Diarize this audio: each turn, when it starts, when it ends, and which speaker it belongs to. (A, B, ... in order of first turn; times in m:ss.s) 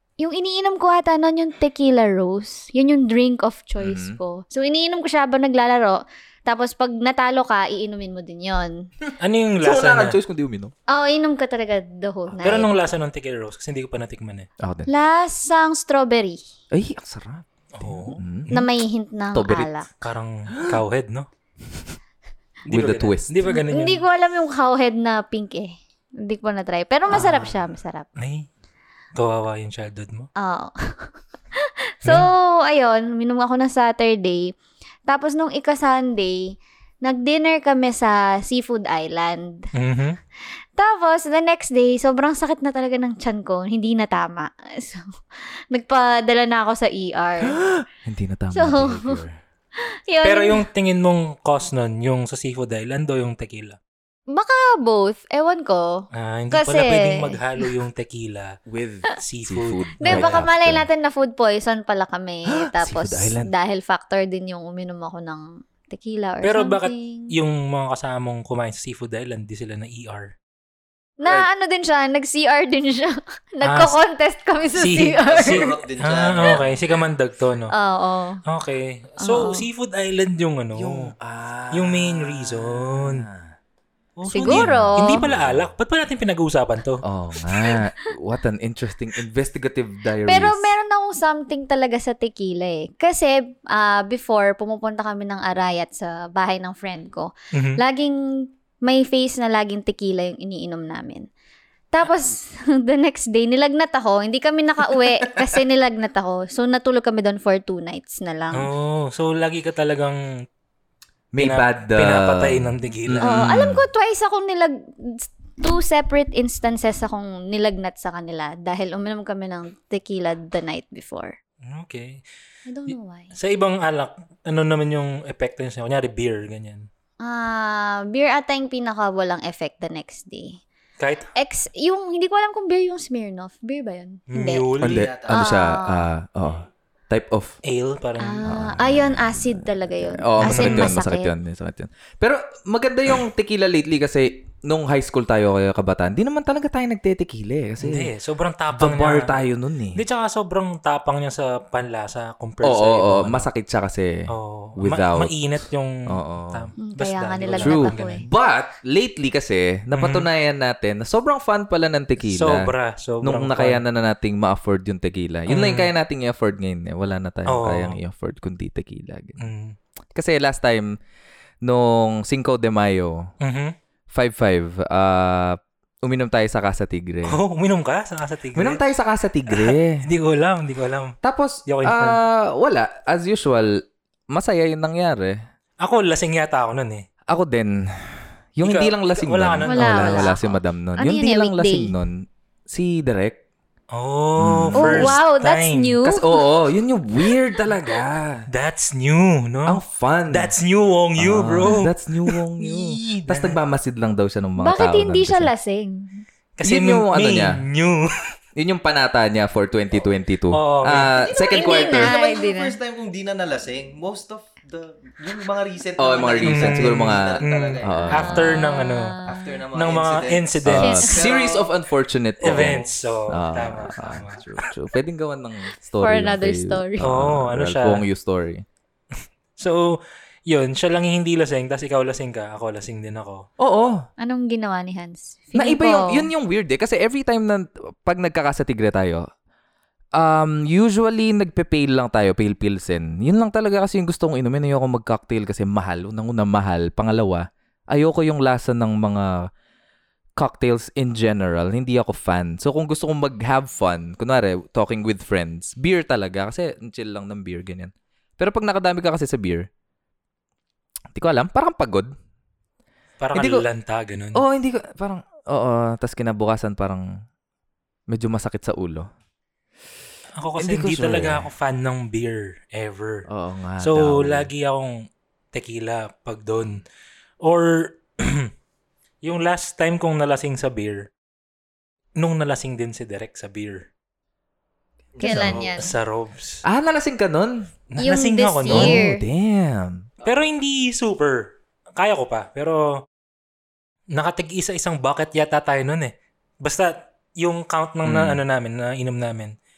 0:00.2-0:08.8 A
0:03.8-0:04.2 B
0:09.2-0:10.2 C
0:09.6-0:10.7 B
0:10.9-0:12.7 A
0:12.4-0:12.7 B
0:12.4-0:14.5 C
0:14.6-0:14.9 B
0:14.9-0:16.4 A
0:16.7-0:18.5 B
0:17.7-0:18.7 C
0:18.5-0:19.9 A
0:19.3-0:19.7 B
0:20.0-0:21.3 C
0:22.6-0:24.0 C
0:22.7-0:23.4 B
0:23.5-0:28.1 A
0:27.1-0:27.6 C
0:28.2-0:28.5 C
0:29.2-0:30.3 C
0:30.4-0:34.5 A
0:35.1-0:39.7 A
0:39.8-0:40.2 C
0:40.8-0:45.0 A
0:45.7-0:47.6 A
0:47.4-0:49.4 B
0:48.5-0:49.2 A
0:50.1-0:50.6 A
0:50.2-0:53.8 C
0:54.3-0:57.4 A
0:56.1-0:58.6 C
0:58.7-1:00.9 B
0:59.2-1:00.4 C
1:00.0-1:07.3 A
1:02.5-1:03.5 B
1:06.4-1:10.3 C
1:11.2-1:15.7 A
1:13.6-1:14.0 C
1:14.8-1:17.7 C
1:15.3-1:16.7 D
1:17.7-1:18.4 A
1:18.5-1:21.1 C
1:19.2-1:19.6 A
1:20.8-1:23.6 B
1:21.7-1:23.3 C
1:24.2-1:27.0 C
1:24.3-1:25.2 A
1:24.3-1:25.7 B
1:27.0-1:30.8 B
1:27.5-1:27.8 A
1:30.3-1:41.3 A
1:37.5-1:37.8 C
1:41.9-1:48.7 A
1:48.6-1:50.2 C
1:51.3-1:53.8 B
1:51.4-1:53.4 C
1:53.2-2:01.4 A
2:01.6-2:02.2 C
2:02.7-2:03.3 A
2:02.9-2:06.9 C
2:07.2-2:10.6 A
2:11.0-2:11.3 C
2:11.4-2:14.7 A
2:14.3-2:15.1 C
2:14.8-2:15.5 D
2:14.8-2:17.6 B
2:15.3-2:16.1 A
2:17.6-2:18.4 C
2:18.2-2:21.3 A
2:18.4-2:28.1 B
2:20.4-2:21.0 C
2:27.8-2:29.4 C
2:28.8-2:30.0 B
2:30.0-2:33.5 C
2:32.6-2:35.4 B
2:34.3-2:38.3 C
2:36.1-2:36.7 B
2:36.8-2:38.2 A
2:37.6-2:42.7 B
2:39.9-2:40.3 C
2:42.2-2:43.8 C
2:43.2-2:49.4 B
2:45.5-2:45.9 C
2:47.5-2:48.0 C
2:49.4-2:49.8 C
2:50.2-2:51.0 B
2:51.6-2:53.3 B
2:53.4-2:53.8 C
2:54.1-2:57.4 B
2:57.3-2:58.8 C
2:58.6-3:00.0 B
2:59.5-3:01.2 C
3:01.2-3:03.8 B
3:01.7-3:02.2 C
3:04.3-3:05.4 B
3:05.8-3:07.0 C
3:07.3-3:13.4 B
3:08.6-3:10.3 C
3:09.6-3:11.9 A
3:13.9-3:16.0 C
3:14.4-3:15.2 B
3:14.8-3:16.3 A
3:16.0-3:18.5 B
3:18.5-3:23.6 C
3:19.7-3:20.5 B
3:21.2-3:25.5 B
3:24.6-3:26.2 A
3:26.6-3:28.1 C
3:26.6-3:27.6 B
3:28.6-3:32.1 B
3:30.5-3:31.1 C
3:31.0-3:38.3 D
3:31.5-3:32.8 A
3:36.0-3:38.7 B
3:36.4-3:39.2 C
3:38.1-3:39.6 A
3:39.3-3:41.7 D
3:39.7-3:41.1 C
3:40.6-3:48.6 B
3:40.8-3:41.2 A
3:42.4-3:44.6 C
3:42.4-3:42.8 D
3:46.0-3:47.1 A
3:47.0-3:48.0 C
3:49.6-3:53.4 C
3:53.6-3:54.1 B
3:54.2-3:56.3 A
3:55.5-3:59.3 B
4:00.2-4:09.4 B
4:10.4-4:19.7 B
4:21.2-4:22.1 B
4:23.2-4:24.4 C
4:23.4-4:23.6 B
4:24.4-4:27.1 B
4:28.1-4:29.1 B
4:30.4-4:33.3 C
4:30.6-4:31.5 B
4:33.3-4:34.5 B
4:33.8-4:35.0 C
4:35.5-4:36.8 C
4:37.4-4:38.5 C
4:39.2-4:41.1 C
4:42.2-4:43.9 C
4:45.2-4:45.7 D
4:45.2-4:45.9 A
4:45.2-4:46.6 C
4:46.6-4:47.7 B
4:47.9-4:49.0 C
4:48.0-4:49.2 A
4:48.7-4:50.1 B
4:50.2-4:53.0 C
4:54.1-4:56.1 C
4:56.6-4:59.5 C
4:58.0-4:58.4 B